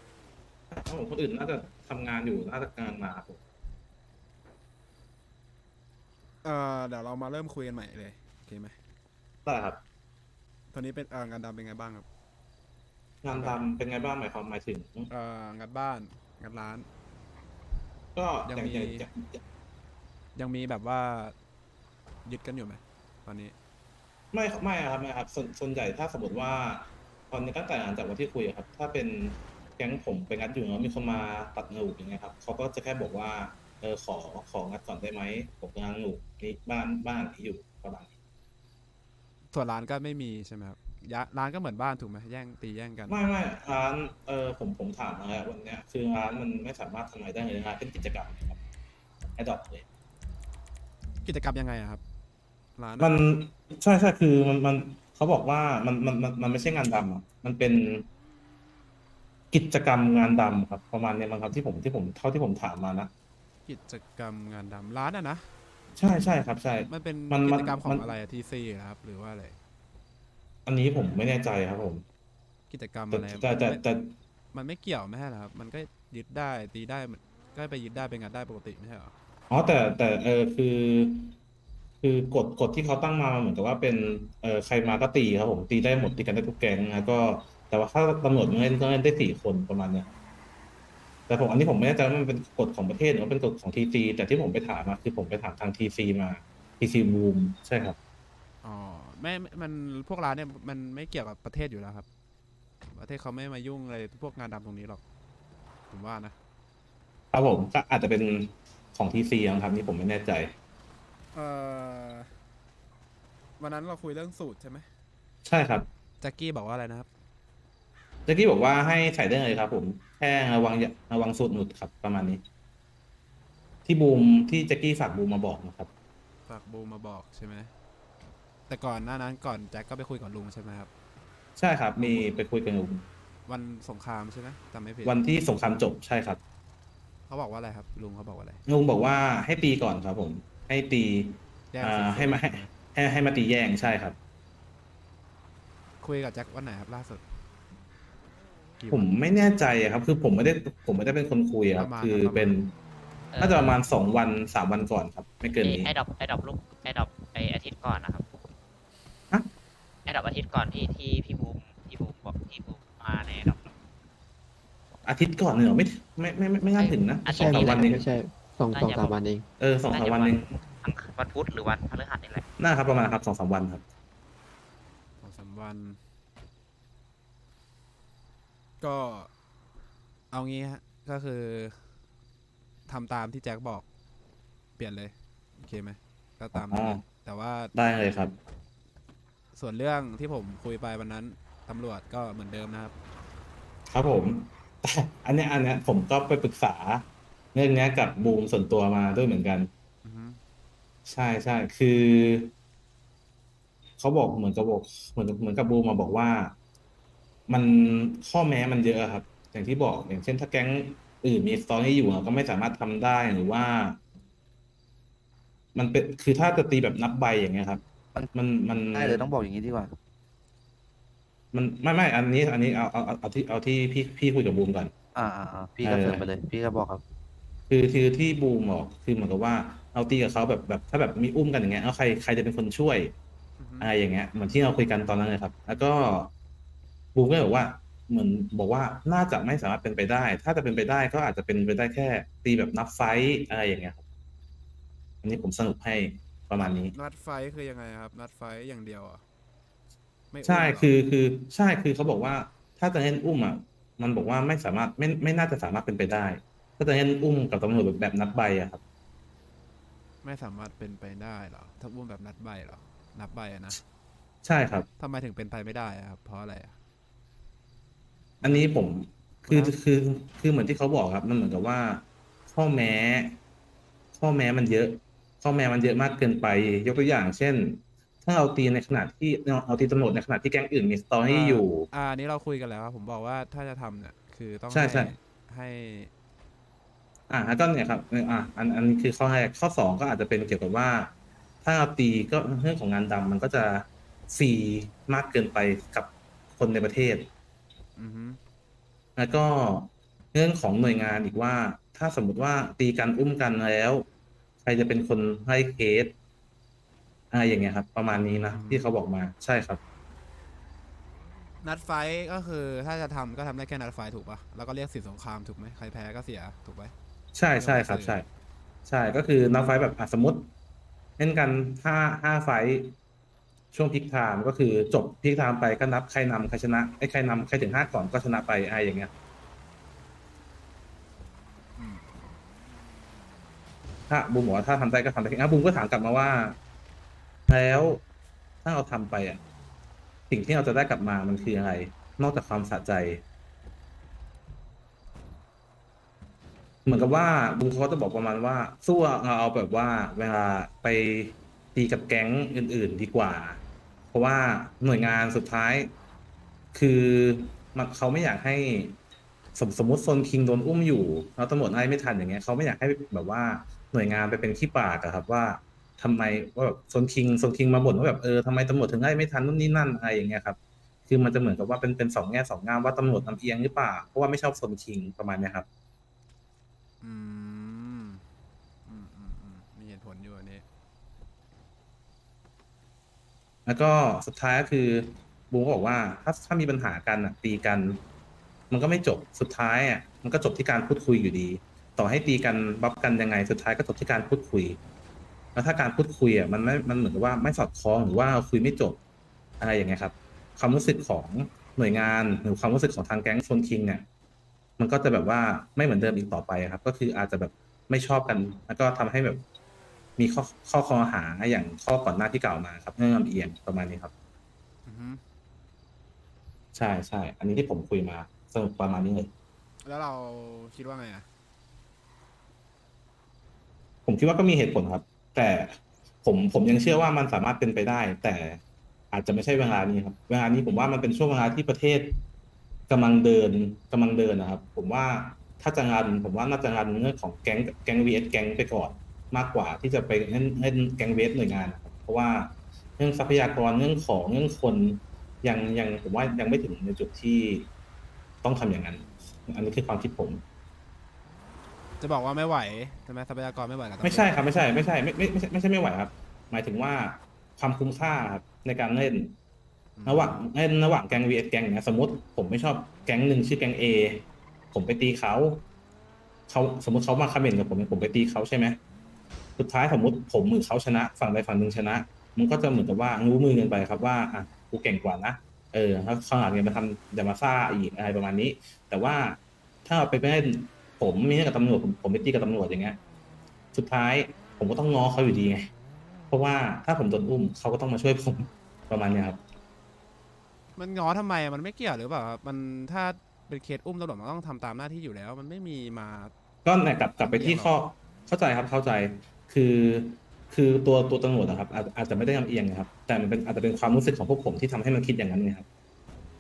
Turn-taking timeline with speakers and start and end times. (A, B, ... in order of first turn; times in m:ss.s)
0:00.7-0:03.4 A
0:06.4-0:08.8 B
0:09.5-0:09.8 A
0:10.7-0:12.0 B
0:13.2-0:15.1 A
0:13.3-0:13.6 B
0:15.1-0:16.9 B
0:18.1-0:19.4 A
0:18.4-0:19.1 B
0:20.3-0:21.3 B
0:22.2-0:23.6 B
0:24.3-0:38.1 A
0:39.5-0:43.2 B
0:43.1-0:48.6 A
0:49.3-0:49.8 A
0:51.2-0:52.0 B
0:52.8-0:53.2 B
0:53.0-0:58.0 A
0:59.5-1:03.1 A
1:03.6-1:05.5 B
1:05.9-1:08.1 A
1:06.9-1:09.6 B
1:10.7-1:12.0 A
1:12.7-1:13.8 B
1:13.1-1:14.1 A
1:14.5-1:19.1 B
1:19.5-1:21.4 A
1:22.0-1:30.1 A
1:31.3-1:38.0 A
1:38.6-1:42.1 B
1:42.9-1:45.0 B
1:45.9-1:46.4 B
1:47.3-1:50.5 A
1:51.3-1:52.3 B
1:53.6-1:54.9 B
1:55.4-1:55.9 A
1:56.2-1:57.1 B
1:58.3-2:02.4 A
2:03.9-2:05.9 A
2:06.5-2:07.7 B
2:08.7-2:10.9 B
2:11.6-2:13.1 A
2:12.0-2:12.3 B
2:13.4-2:15.2 B
2:15.0-2:16.4 A
2:17.3-2:18.6 B
2:18.7-2:24.2 A
2:21.7-2:22.7 B
2:26.0-2:27.2 B
2:28.8-2:29.1 B
2:28.9-2:32.7 A
2:31.8-2:32.6 B
2:33.3-2:33.7 C
2:33.4-2:35.9 A
2:35.6-2:38.2 C
2:40.1-2:43.7 C
2:45.0-2:48.1 A
2:46.8-2:47.9 C
2:47.3-2:49.4 D
2:48.7-2:49.2 C
2:49.6-2:50.4 A
2:49.9-2:52.4 C
2:52.6-2:53.8 A
2:55.2-2:56.0 B
2:58.8-2:59.3 B
3:00.3-3:01.9 B
3:02.9-3:03.8 B
3:04.8-3:07.7 B
3:06.5-3:07.0 A
3:07.7-3:08.3 A
3:09.5-3:12.9 B
3:13.9-3:19.7 A
3:20.0-3:20.4 B
3:21.1-3:22.5 A
3:24.0-3:26.5 A
3:27.5-3:34.0 A
3:35.8-3:37.8 A
3:38.3-3:39.3 A
3:38.9-3:39.9 E
3:41.5-3:44.9 A
3:45.1-3:47.0 E
3:45.8-3:46.2 A
3:47.7-3:53.1 A
3:53.6-3:53.9 B
3:53.8-3:56.3 A
3:57.1-4:04.0 A
4:05.2-4:06.9 A
4:06.6-4:09.2 B
4:10.3-4:10.9 B
4:10.4-4:18.8 A
4:20.2-4:23.8 B
4:24.4-4:24.9 A
4:25.0-4:26.8 B
4:28.4-4:28.7 B
4:28.4-4:33.4 A
4:29.4-4:29.8 B
4:34.2-4:41.9 A
4:41.3-4:46.1 B
4:44.7-4:45.1 A
4:47.3-4:51.1 A
4:51.6-4:57.3 A
4:58.0-4:58.4 B
4:59.2-5:04.1 A
5:04.6-5:06.1 A
5:07.3-5:09.8 A
5:08.3-5:08.9 B
5:11.6-5:16.9 B
5:17.3-5:18.2 A
5:17.6-5:18.2 B
5:18.9-5:20.5 A
5:21.2-5:23.0 A
5:23.7-5:29.1 A
5:31.8-5:32.1 B
5:34.1-5:36.6 A
5:37.5-5:38.0 A
5:38.6-5:39.4 A
5:40.3-5:43.2 A
5:46.8-5:53.6 A
5:54.1-5:55.9 A
5:56.7-5:59.0 A
5:59.6-6:15.6 A
6:17.0-6:18.2 B
6:18.9-6:20.6 B
6:23.6-6:28.0 A
6:28.7-6:34.8 A
6:35.6-6:39.0 A
6:39.6-6:44.0 A
6:44.8-6:49.4 A
6:50.2-6:54.1 A
6:54.9-6:55.2 B
6:56.8-6:59.3 A
6:59.8-7:01.2 B
7:04.1-7:08.6 A
7:09.1-7:12.2 A
7:12.9-7:27.7 A
7:28.4-7:30.4 A
7:32.0-7:34.3 B
7:34.0-7:39.4 A
7:40.0-7:40.4 B
7:40.1-7:45.6 A
7:46.5-7:48.8 A
7:49.6-8:03.0 A
8:03.7-8:05.7 A
8:06.3-8:09.4 A
8:10.8-8:16.3 B
8:16.6-8:25.7 A
8:17.2-8:17.7 B